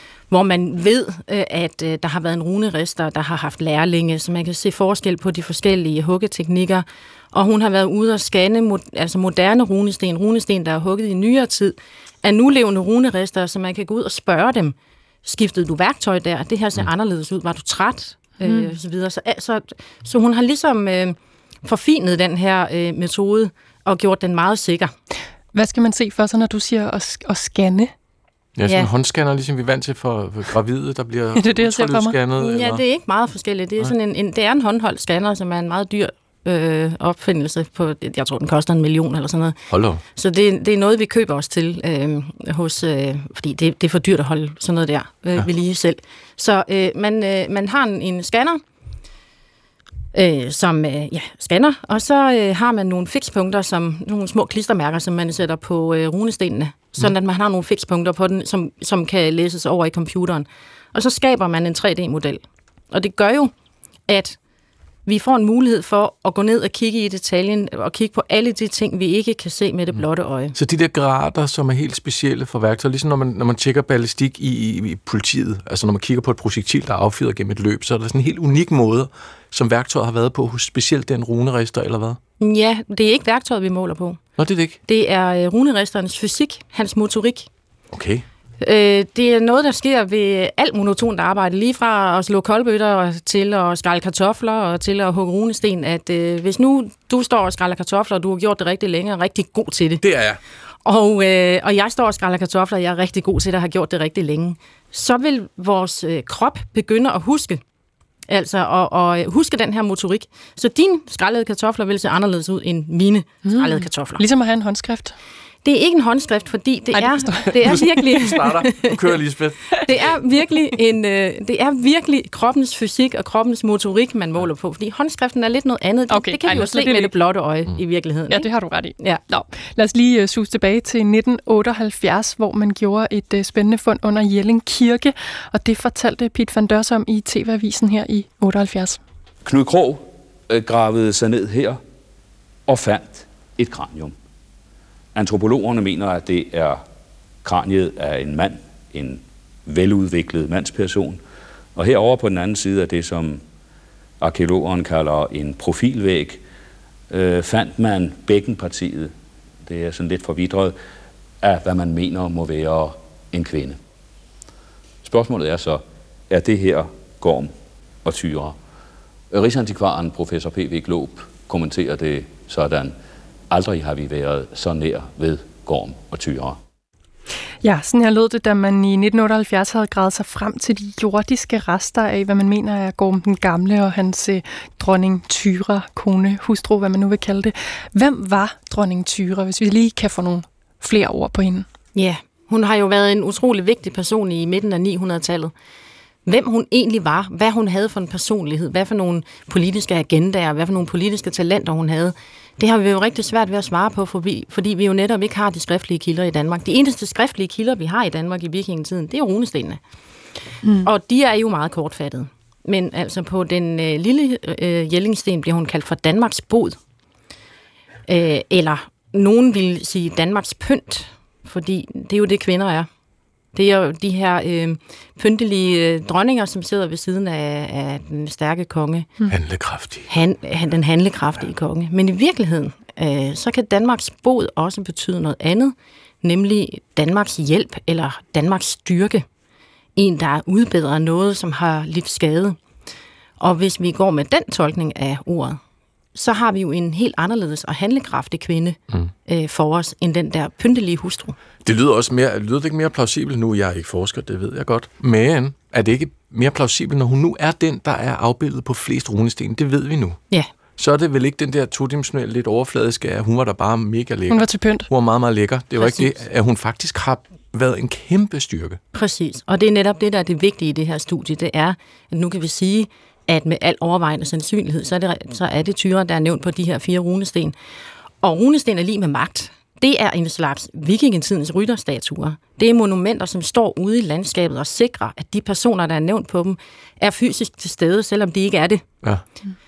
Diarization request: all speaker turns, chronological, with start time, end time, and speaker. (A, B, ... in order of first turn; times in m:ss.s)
0:00.3-0:24.9 A
0:18.4-0:18.7 B
0:25.5-0:27.9 B
0:28.6-0:32.8 C
0:31.4-0:32.2 B
0:32.4-0:39.6 A
0:39.7-0:40.0 C
0:40.2-0:48.6 A
0:50.1-1:03.5 A
1:04.1-1:04.4 A
1:05.1-1:10.6 A
1:10.6-1:22.2 C
1:22.4-1:24.2 A
1:24.4-1:24.8 C
1:24.9-1:27.5 A
1:27.9-1:28.2 C
1:28.6-1:40.0 A
1:40.0-1:40.4 C
1:40.8-1:47.6 A
1:48.3-1:54.2 A
1:53.4-1:55.2 B
1:55.6-1:59.0 A
1:56.9-1:58.3 B
1:57.6-2:00.0 C
1:59.8-2:09.2 A
2:06.1-2:07.1 B
2:08.3-2:19.0 B
2:19.4-2:21.8 D
2:22.7-2:24.2 D
2:25.2-2:26.8 D
2:27.4-2:31.2 D
2:31.8-2:33.4 D
2:34.2-2:36.4 D
2:37.1-2:40.8 D
2:41.4-2:43.8 D
2:45.0-2:47.5 D
2:48.0-2:48.6 D
2:49.3-2:53.0 D
2:53.5-2:56.6 D
2:57.6-3:11.7 B
3:11.9-3:15.5 A
3:16.3-3:29.8 A
3:30.8-3:36.8 A
3:38.1-3:42.9 A
3:43.5-3:49.1 A
3:49.3-3:50.1 C
3:50.1-3:59.2 A
4:00.0-4:02.6 A
4:03.4-4:05.6 A
4:06.2-4:11.4 A
4:11.6-4:20.2 C
4:20.8-4:28.8 C
4:24.3-4:24.9 B
4:25.8-4:26.2 A
4:28.9-4:37.5 A
4:38.2-4:48.8 A